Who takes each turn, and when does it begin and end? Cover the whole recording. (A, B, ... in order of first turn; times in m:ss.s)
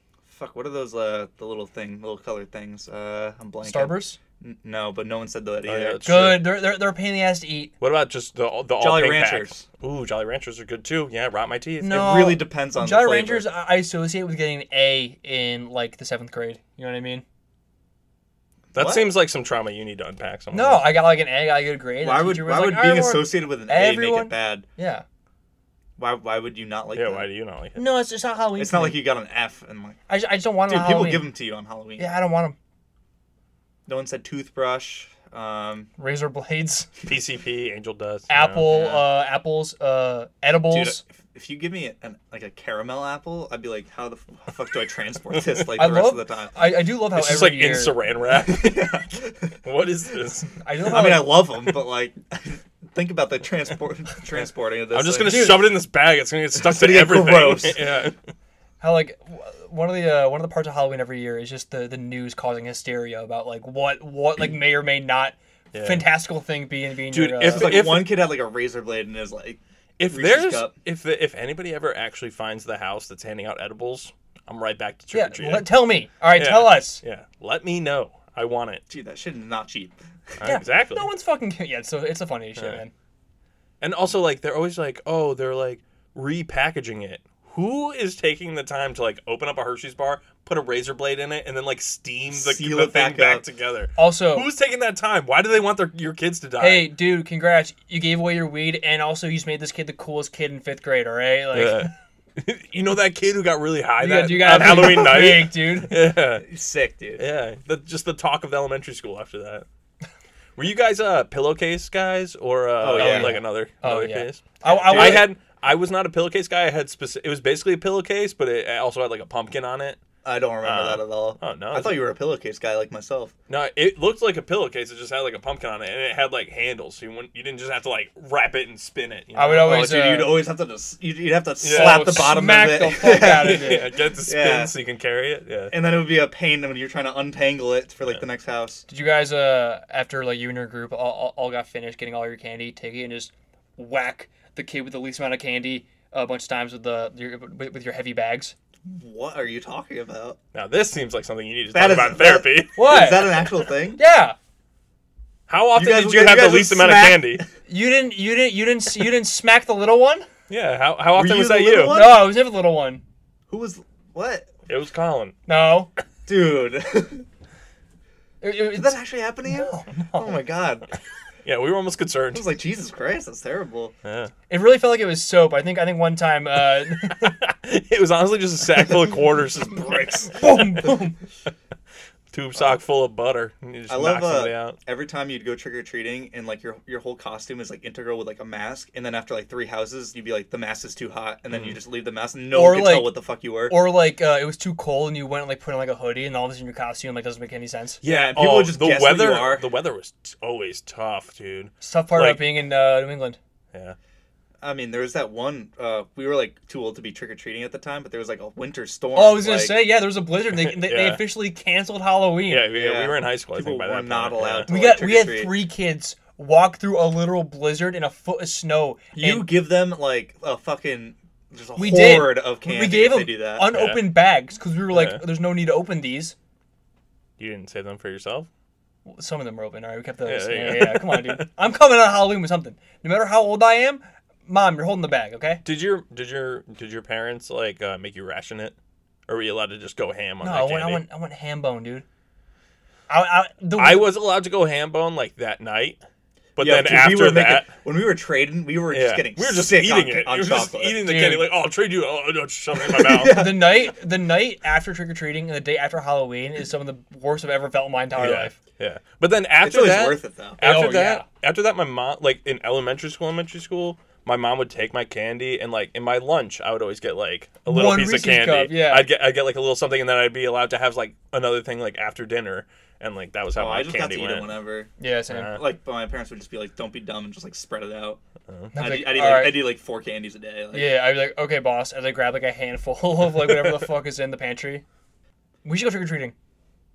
0:00.3-0:06.0 A
0:03.6-0:04.2 B
0:05.7-0:06.5 C
0:06.0-0:07.7 B
0:07.8-0:12.0 C
0:08.8-0:09.6 A
0:11.8-0:17.2 B
0:11.8-0:13.5 A
0:18.7-0:19.1 A
0:18.8-0:21.0 C
0:20.5-0:25.0 B
0:22.0-0:24.7 A
0:26.0-0:27.3 A
0:27.0-0:27.9 C
0:27.8-0:29.0 B
0:28.6-0:30.0 A
0:30.1-0:31.3 B
0:30.7-0:32.1 A
0:32.0-0:32.6 B
0:33.9-0:35.9 A
0:36.0-0:36.9 B
0:37.0-0:38.8 C
0:38.3-0:41.0 B
0:38.7-0:39.0 A
0:40.7-0:46.5 A
0:45.8-0:48.0 B
0:47.0-0:49.0 C
0:48.3-0:49.5 A
0:49.6-0:50.5 C
0:50.6-0:51.4 B
0:50.9-0:55.6 A
0:54.9-0:58.2 C
0:55.3-0:55.7 B
0:56.5-0:57.8 A
0:58.8-1:07.9 B
1:05.7-1:06.1 C
1:07.1-1:08.2 C
1:07.4-1:10.7 A
1:10.0-1:15.8 C
1:15.1-1:17.0 B
1:16.4-1:18.8 C
1:18.9-1:20.4 A
1:20.4-1:21.1 C
1:20.4-1:22.9 B
1:23.8-1:36.9 C
1:32.3-1:33.4 A
1:34.0-1:34.5 B
1:36.6-1:41.9 B
1:41.5-1:46.5 C
1:44.0-1:45.9 B
1:44.6-1:45.4 A
1:46.4-1:47.2 A
1:47.2-1:49.7 C
1:50.6-2:00.0 C
1:52.8-1:53.4 A
1:52.9-1:55.3 B
1:54.6-1:55.3 A
2:00.2-2:03.3 A
2:00.6-2:02.0 C
2:03.5-2:10.0 C
2:09.4-2:10.4 B
2:09.5-2:14.7 A
2:11.6-2:12.2 C
2:11.7-2:13.9 B
2:13.1-2:15.7 C
2:15.7-2:18.8 A
2:18.9-2:28.5 B
2:28.8-2:30.4 A
2:30.5-2:33.4 C
2:31.7-2:34.0 A
2:32.8-2:33.4 B
2:34.0-2:34.4 B
2:35.5-2:37.4 C
2:35.7-2:37.5 A
2:37.7-2:40.3 B
2:40.5-2:42.0 C
2:41.2-2:42.3 A
2:41.8-2:43.0 B
2:43.5-2:44.5 A
2:44.7-2:45.4 C
2:45.5-2:45.9 B
2:46.3-2:47.2 A
2:48.4-2:50.4 B
2:48.8-2:50.9 A
2:51.4-2:52.5 C
2:52.3-2:54.0 A
2:54.0-2:54.3 C
2:54.5-2:57.4 B
2:57.1-3:00.8 C
3:00.3-3:01.2 B
3:02.3-3:04.8 C
3:03.9-3:13.9 A
3:11.5-3:11.8 C
3:12.5-3:13.2 B
3:13.7-3:18.0 B
3:18.0-3:22.5 C
3:18.0-3:19.7 A
3:21.8-3:23.4 B
3:24.6-3:30.0 A
3:29.2-3:32.7 B
3:30.5-3:31.4 C
3:32.5-3:34.7 C
3:32.7-3:35.6 A
3:34.7-3:39.5 B
3:39.1-3:43.7 A
3:41.8-3:46.4 B
3:43.7-3:44.2 C
3:44.9-3:45.2 C
3:47.4-3:48.5 C
3:49.0-3:55.6 B
3:50.2-3:51.5 C
3:55.6-3:58.8 C
3:59.3-4:01.0 C
4:00.4-4:02.0 B
4:03.1-4:04.1 B
4:03.8-4:06.0 C
4:06.6-4:07.7 C
4:06.6-4:11.0 A
4:08.9-4:13.4 C
4:11.0-4:11.5 B
4:12.9-4:13.9 A
4:13.1-4:18.6 B
4:18.2-4:34.5 C
4:19.6-4:20.6 A
4:20.6-4:21.2 B
4:27.7-4:29.1 B
4:33.5-4:34.9 A
4:35.0-4:35.6 B
4:35.3-4:35.6 C
4:35.5-4:38.2 A
4:38.5-4:38.8 C
4:38.8-4:39.8 B
4:38.8-4:41.1 A
4:40.7-4:44.8 B
4:45.6-4:46.3 B